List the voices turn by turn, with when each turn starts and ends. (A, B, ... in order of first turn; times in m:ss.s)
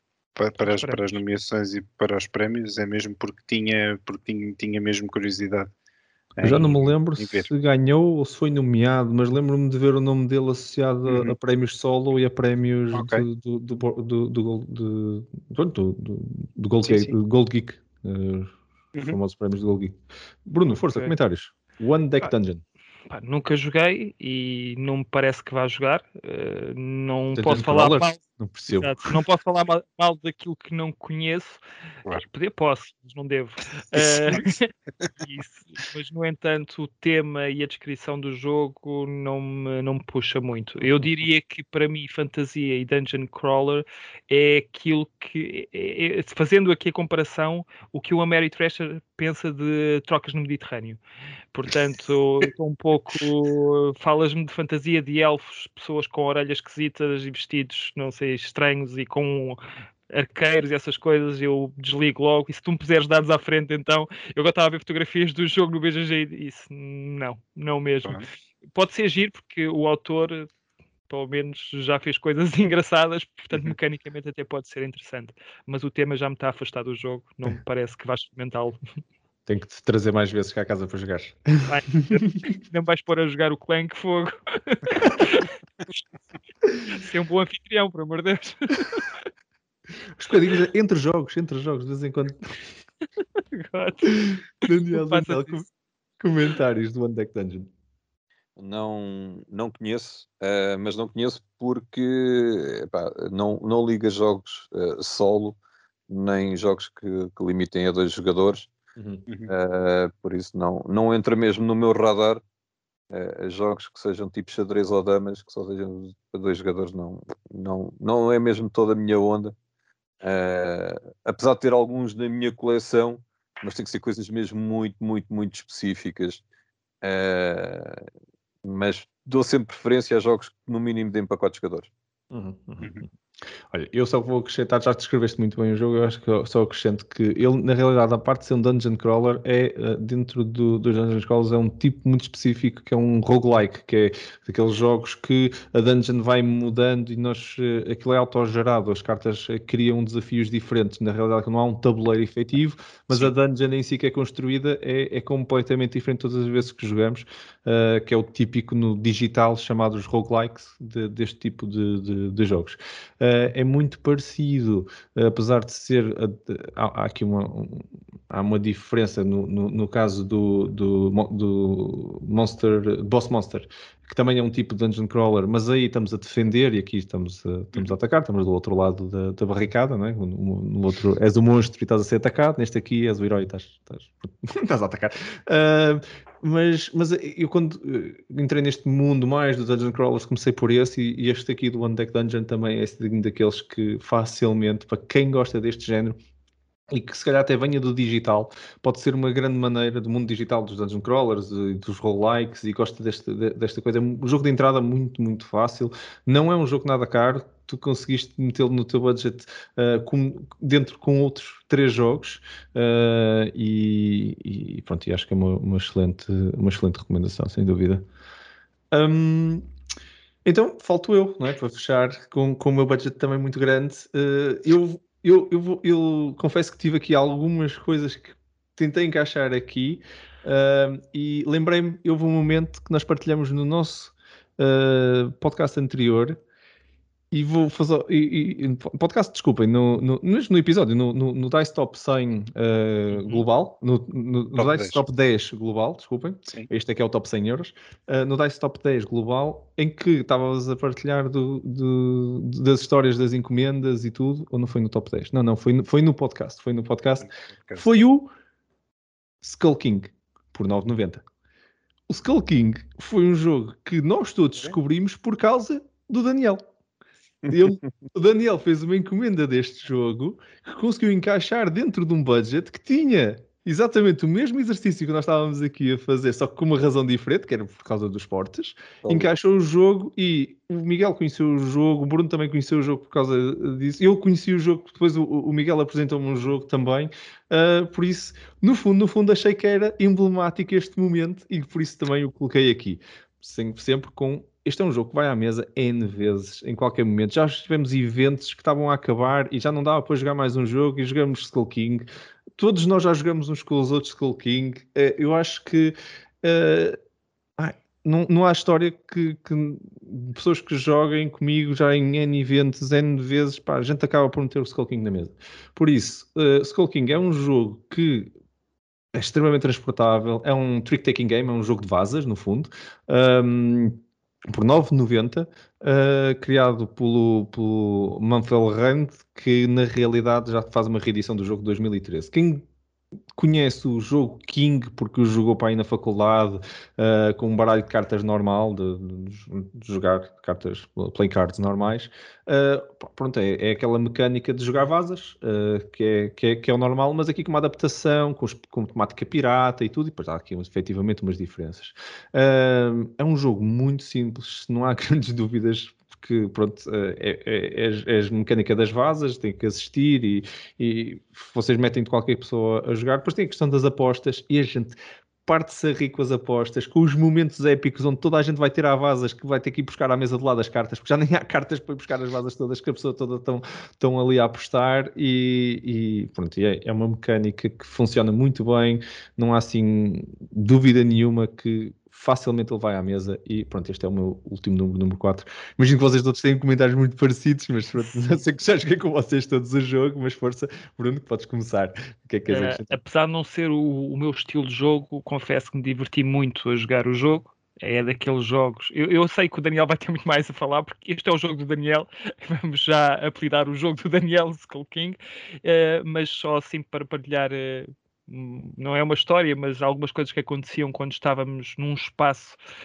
0:00.4-0:05.7 A
0:00.6-0:01.2 B
0:06.4-0:07.5 A
0:06.4-0:22.6 C
0:11.1-0:11.3 A
0:12.9-0:13.2 A
0:16.8-0:17.1 A
0:23.1-0:28.2 B
0:27.3-0:29.0 C
0:28.7-0:31.6 B
0:32.1-0:51.0 B
0:34.0-0:34.4 A
0:51.5-1:08.2 B
1:08.7-1:10.5 B
1:11.1-1:18.8 B
1:19.5-1:22.4 C
1:21.7-1:26.0 B
1:26.9-1:29.2 B
1:30.2-1:32.7 C
1:33.5-1:34.4 B
1:34.2-1:35.7 C
1:34.9-1:35.6 B
1:36.2-1:37.7 C
1:38.6-1:45.6 D
1:46.1-1:48.7 D
1:49.0-1:49.2 C
1:49.5-1:52.4 D
1:53.1-1:59.5 D
2:00.2-2:06.4 D
2:07.0-2:08.0 D
2:08.6-2:11.9 D
2:12.3-2:13.0 C
2:13.7-3:16.2 C
3:16.9-3:38.0 C
3:38.9-3:39.6 C
3:40.4-3:56.4 C
3:57.3-4:18.3 C
4:03.1-4:03.4 A
4:04.6-4:05.0 A
4:17.2-4:17.9 A
4:19.4-4:21.2 C
4:22.1-4:26.6 C
4:27.5-5:02.0 C
4:39.0-4:39.3 D
5:02.6-5:07.0 C
5:07.6-5:18.3 C
5:19.1-5:32.6 C
5:33.3-6:33.0 C
6:32.5-6:52.6 B